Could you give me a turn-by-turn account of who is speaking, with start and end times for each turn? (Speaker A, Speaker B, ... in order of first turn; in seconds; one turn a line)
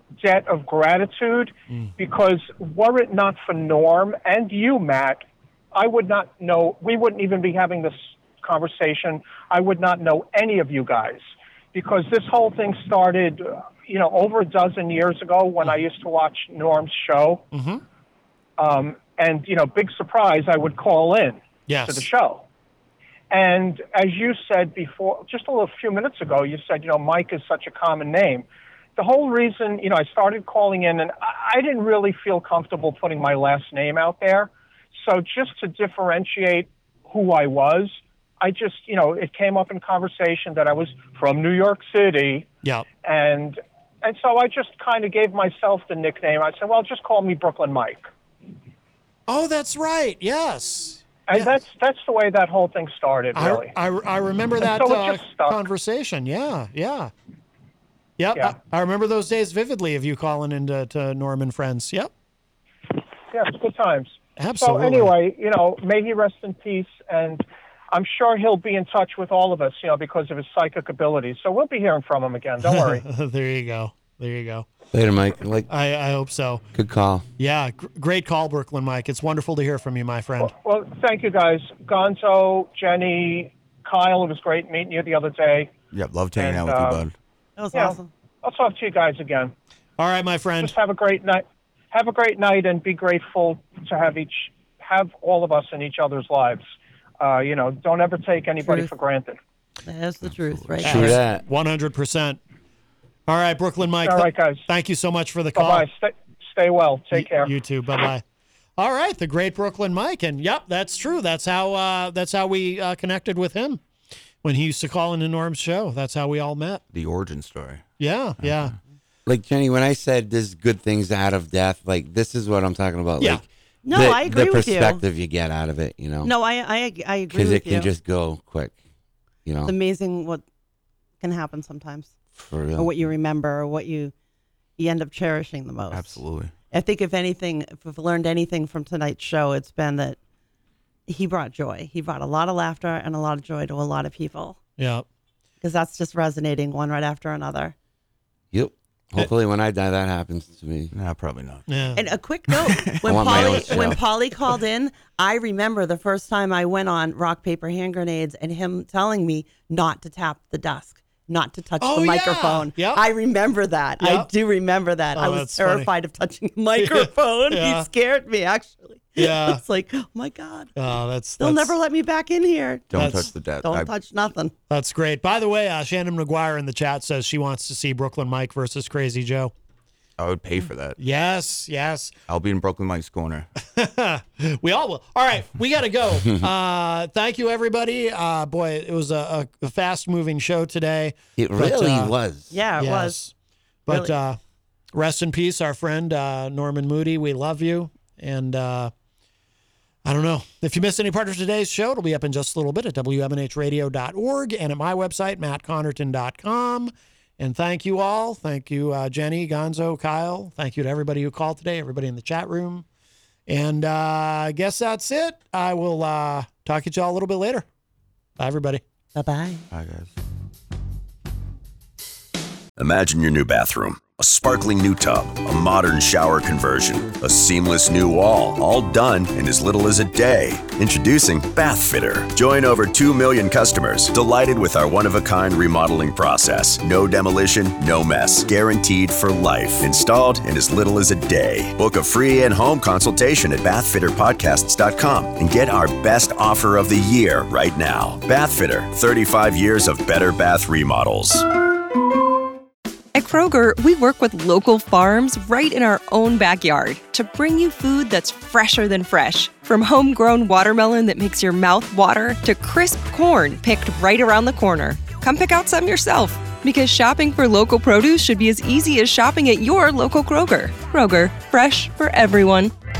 Speaker A: 0.2-5.2
Speaker A: 5.7-17.4
Speaker B: 17.5-17.8
Speaker A: 18.6-22.4
Speaker B: 21.7-22.1
Speaker A: 23.3-28.4
Speaker A: 29.0-42.5
Speaker A: 43.0-48.1
Speaker B: 49.3-51.5
Speaker A: 51.3-53.7
Speaker B: 53.4-57.1
Speaker A: 54.6-55.6
Speaker B: 58.2-62.1
Speaker A: 63.3-73.0
Speaker B: 64.4-65.1
Speaker B: 72.6-74.7
Speaker C: 74.9-75.7
Speaker B: 75.7-76.7
Speaker C: 76.7-77.2
Speaker B: 77.4-80.5
Speaker A: 80.4-85.7
Speaker D: 85.9-87.1
Speaker A: 86.4-87.0
Speaker E: 87.6-88.1
Speaker A: 87.7-89.5
Speaker B: 90.0-90.7
Speaker A: 90.6-96.7
Speaker A: 97.2-99.4
Speaker E: 98.6-98.9
Speaker E: 99.8-101.2
Speaker D: 100.2-101.0
Speaker B: 100.8-102.4
Speaker C: 100.8-101.4
Speaker B: 103.3-105.8
Speaker A: 104.0-104.7
Speaker A: 105.5-107.5
Speaker B: 107.1-108.2
Speaker B: 108.8-113.8
Speaker B: 114.4-116.8
Speaker D: 116.9-117.9
Speaker B: 118.0-118.8
Speaker D: 118.4-118.7
Speaker C: 119.3-126.3
Speaker E: 123.8-125.0
Speaker E: 126.2-127.9
Speaker C: 127.3-128.8
Speaker C: 129.4-129.8
Speaker E: 129.7-130.4
Speaker E: 131.2-132.2
Speaker C: 132.3-132.9
Speaker E: 132.8-134.1
Speaker E: 134.8-140.2
Speaker D: 135.9-136.5
Speaker E: 141.1-144.6
Speaker B: 144.8-145.1
Speaker E: 145.6-147.7
Speaker C: 148.5-150.9
Speaker D: 150.9-151.7
Speaker B: 151.7-152.0
Speaker E: 152.0-170.7
Speaker D: 152.5-153.8
Speaker C: 153.1-154.0
Speaker B: 161.8-163.0
Speaker B: 164.0-164.3
Speaker B: 165.2-165.9
Speaker B: 166.8-167.9
Speaker B: 169.2-169.6
Speaker B: 170.8-171.8
Speaker E: 171.4-174.5
Speaker D: 172.9-173.9
Speaker B: 173.0-173.3
Speaker B: 174.7-179.5
Speaker D: 180.2-181.0
Speaker B: 181.0-182.2
Speaker D: 182.3-183.5
Speaker B: 183.7-192.2
Speaker C: 191.4-192.6
Speaker E: 192.5-193.2
Speaker B: 192.8-193.3
Speaker B: 193.9-194.4
Speaker E: 193.9-194.2
Speaker B: 194.9-198.9
Speaker B: 200.0-212.8
Speaker B: 213.5-217.7
Speaker B: 218.4-218.8
Speaker E: 219.2-219.7
Speaker D: 219.7-220.1
Speaker F: 222.8-251.4
Speaker G: 253.2-272.7